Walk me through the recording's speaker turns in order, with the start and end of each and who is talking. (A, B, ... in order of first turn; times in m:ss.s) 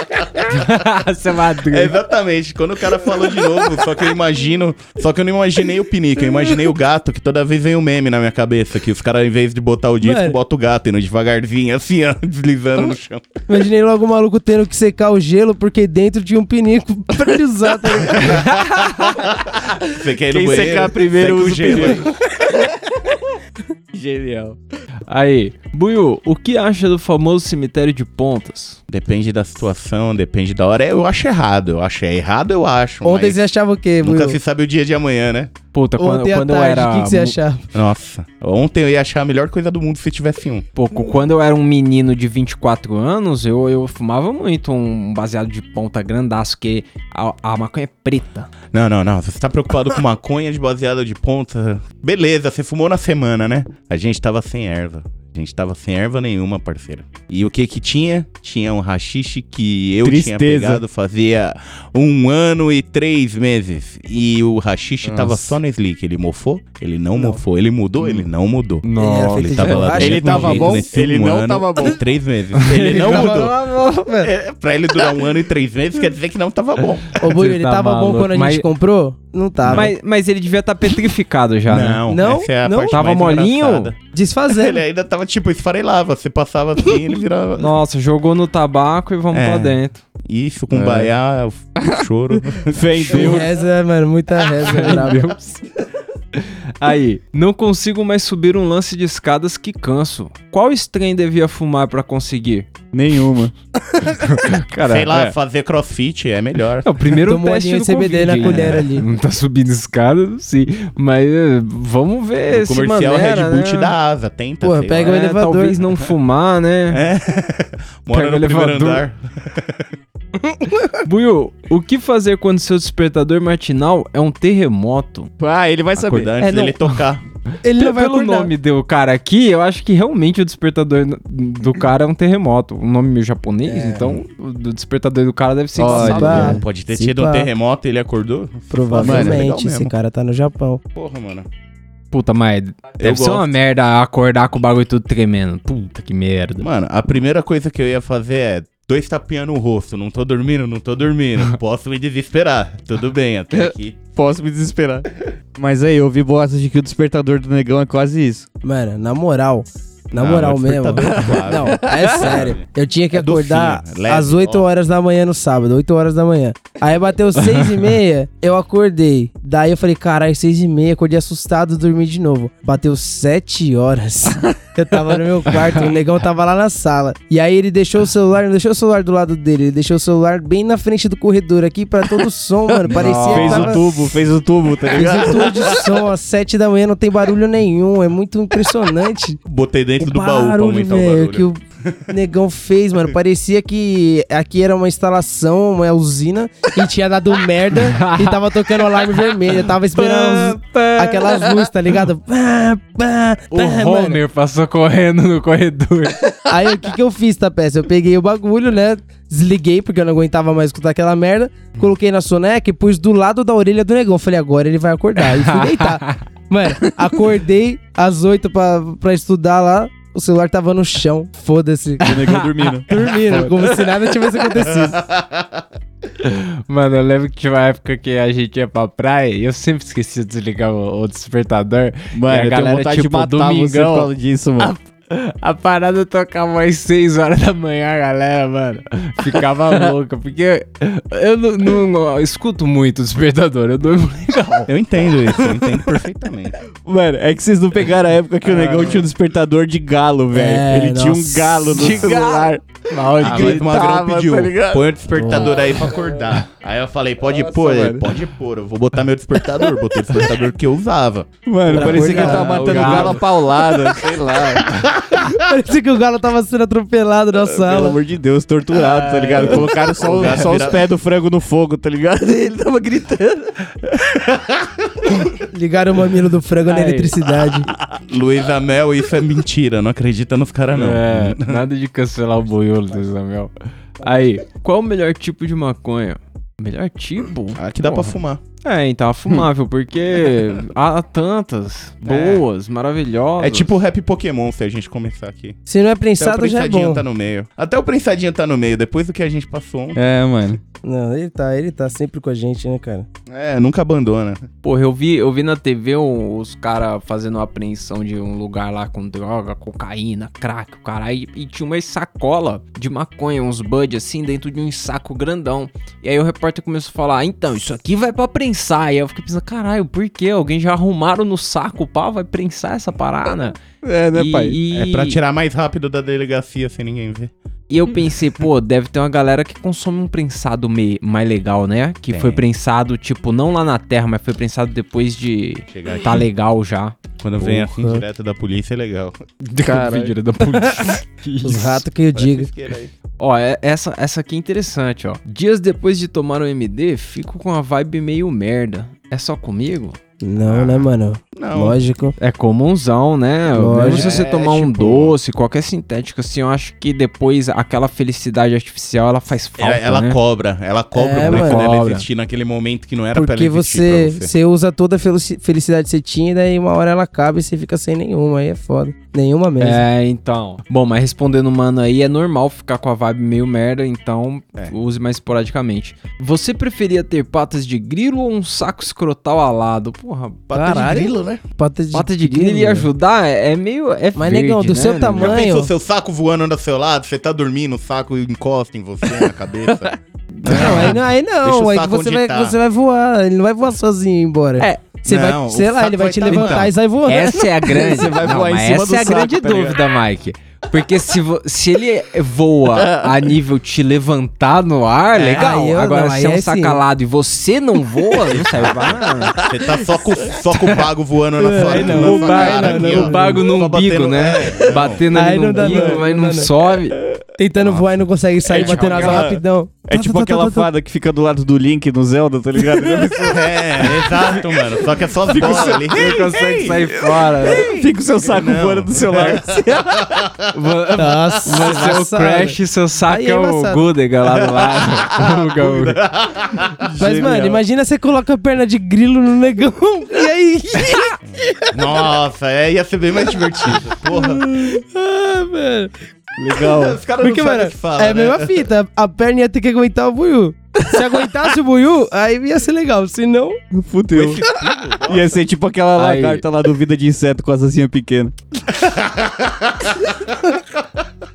0:00.5-0:01.9 A
0:01.7-0:13.4 B
0:10.0-0:10.4 C
0:13.5-0:18.5 C
0:18.2-0:19.0 A
0:19.0-0:22.1 B
0:20.3-0:23.2 D
0:23.9-0:24.6 D
0:25.1-0:28.8 A
0:28.9-0:33.4 B
0:33.0-0:34.4 C
0:34.0-0:35.5 B
0:35.7-0:37.4 A
0:36.0-0:37.6 C
0:37.7-0:40.7 B
0:40.8-0:48.5 A
0:48.7-1:13.6 B
1:00.0-1:00.8 D
1:05.0-1:05.6 D
1:07.2-1:07.4 C
1:08.8-1:10.6 A
1:09.0-1:10.8 C
1:09.9-1:12.0 D
1:12.6-1:14.1 A
1:12.8-1:14.3 C
1:14.2-1:17.2 B
1:17.2-1:19.9 C
1:17.2-1:18.7 A
1:19.6-1:19.9 B
1:19.7-1:22.0 A
1:21.7-1:24.0 B
1:22.1-1:23.0 C
1:22.9-1:23.9 A
1:24.1-1:24.8 C
1:24.5-1:27.7 B
1:27.6-1:30.0 A
1:29.3-1:33.5 B
1:30.7-1:31.1 D
1:31.8-1:33.5 D
1:33.1-1:35.4 C
1:34.6-1:35.6 A
1:36.4-1:42.7 A
1:42.9-1:43.5 D
1:44.0-1:45.3 A
1:44.8-1:47.0 B
1:46.8-1:53.7 A
1:47.2-1:49.1 C
1:48.4-1:48.8 B
1:52.5-1:55.2 B
1:53.1-1:53.9 C
1:54.6-1:55.8 C
1:55.0-1:57.0 A
1:56.9-1:59.8 B
1:58.1-1:59.0 A
2:01.0-2:05.3 A
2:05.4-2:06.3 D
2:06.0-2:07.2 B
2:06.4-2:06.8 C
2:07.6-2:08.5 C
2:07.8-2:16.6 A
2:13.7-2:14.1 C
2:15.8-2:16.6 D
2:15.8-2:17.5 C
2:16.0-2:19.9 B
2:18.7-2:20.8 C
2:19.0-2:19.5 D
2:21.0-2:21.5 B
2:22.1-2:26.7 A
2:23.0-2:23.5 B
2:26.6-2:34.0 B
2:33.5-2:38.5 D
2:38.6-3:03.8 C
2:40.2-2:44.7 B
2:41.3-2:42.2 D
3:02.9-3:05.6 D
3:02.9-3:03.9 A
3:04.9-3:05.8 B
3:04.9-3:09.4 C
3:09.5-3:12.0 B
3:10.0-3:11.6 C
3:12.1-3:24.2 C
3:17.8-3:18.4 A
3:20.0-3:21.6 A
3:23.5-3:26.3 A
3:26.5-3:42.2 C
3:35.2-3:36.2 A
3:42.0-3:42.9 D
3:42.1-3:43.8 A
3:42.9-3:45.0 C
3:44.6-3:45.6 B
3:46.2-4:04.7 A
3:52.1-3:54.7 D
4:04.7-4:06.6 B
4:05.4-4:05.8 D
4:06.8-4:16.1 D
4:08.5-4:09.0 A
4:10.3-4:12.1 C
4:11.7-4:13.7 A
4:13.2-4:21.3 B
4:17.3-4:18.1 D
4:21.5-4:24.7 D
4:21.7-4:23.2 C
4:21.7-4:23.2 A
4:21.8-4:23.2 B
4:24.5-4:25.4 B
4:25.2-4:28.0 C
4:27.5-4:33.6 D
4:29.1-4:30.9 B
4:30.2-4:30.4 A
4:33.9-4:35.3 B
4:35.5-4:37.7 C
4:36.7-4:37.2 A
4:37.9-4:41.6 B
4:40.7-4:53.7 A
4:47.6-4:48.4 B
4:52.0-4:52.4 B
4:53.4-4:55.6 B
4:55.7-4:57.0 C
4:56.2-5:00.0 B
5:00.0-5:00.6 D
5:00.8-5:03.1 C
5:03.3-5:04.5 B
5:04.6-5:23.6 A
5:23.8-5:24.6 D
5:24.1-5:25.2 A
5:24.7-5:27.3 B
5:27.7-5:37.0 A
5:32.1-5:32.4 B
5:35.7-5:36.3 B
5:37.2-5:39.2 B
5:39.4-5:41.8 A
5:39.7-5:40.8 C
5:39.7-5:40.1 D
5:41.4-5:42.5 C
5:42.1-5:42.9 B
5:43.2-5:50.0 A
5:50.2-5:52.2 C
5:50.4-5:51.8 B
5:52.2-6:00.2 A
5:53.5-5:54.3 C
5:53.9-5:55.2 B
5:59.6-6:04.3 B
6:01.0-6:01.6 C
6:01.2-6:02.0 A
6:03.1-6:09.8 C
6:09.6-6:20.5 A
6:20.5-6:21.4 B
6:20.5-6:22.9 C
6:21.9-6:25.4 A
6:24.2-6:25.7 C
6:25.2-6:29.9 B
6:29.3-6:29.9 D
6:30.4-6:30.9 A
6:30.4-6:37.4 C
6:30.4-6:32.6 B
6:35.1-6:36.7 B
6:36.3-6:49.4 A
6:37.6-6:39.8 D
6:42.8-6:43.1 D
6:45.2-6:45.5 B
6:45.3-6:46.8 C
6:48.3-6:55.0 B
6:50.5-6:50.8 A
6:51.4-6:53.4 C
6:51.7-6:57.0 A
6:55.1-6:56.5 C
6:55.6-6:56.0 D
6:57.4-7:00.7 C
6:57.6-6:58.1 B
6:58.5-7:04.7 D
6:58.5-6:59.3 A
7:02.9-7:03.2 A
7:03.2-7:10.4 B
7:04.0-7:04.4 A
7:05.3-7:07.7 A
7:05.3-7:05.7 D
7:07.4-7:10.0 D
7:10.5-7:16.0 A
7:11.0-7:13.8 C
7:14.5-7:16.9 B
7:16.8-7:17.6 D
7:17.0-7:21.8 C
7:21.3-7:24.5 B
7:24.0-7:25.9 C
7:26.4-7:27.0 D
7:26.6-7:28.7 B
7:27.2-7:33.6 C
7:33.7-7:34.4 D
7:34.1-7:35.4 B
7:35.0-7:38.4 D
7:36.0-7:36.4 A
7:38.8-7:40.1 B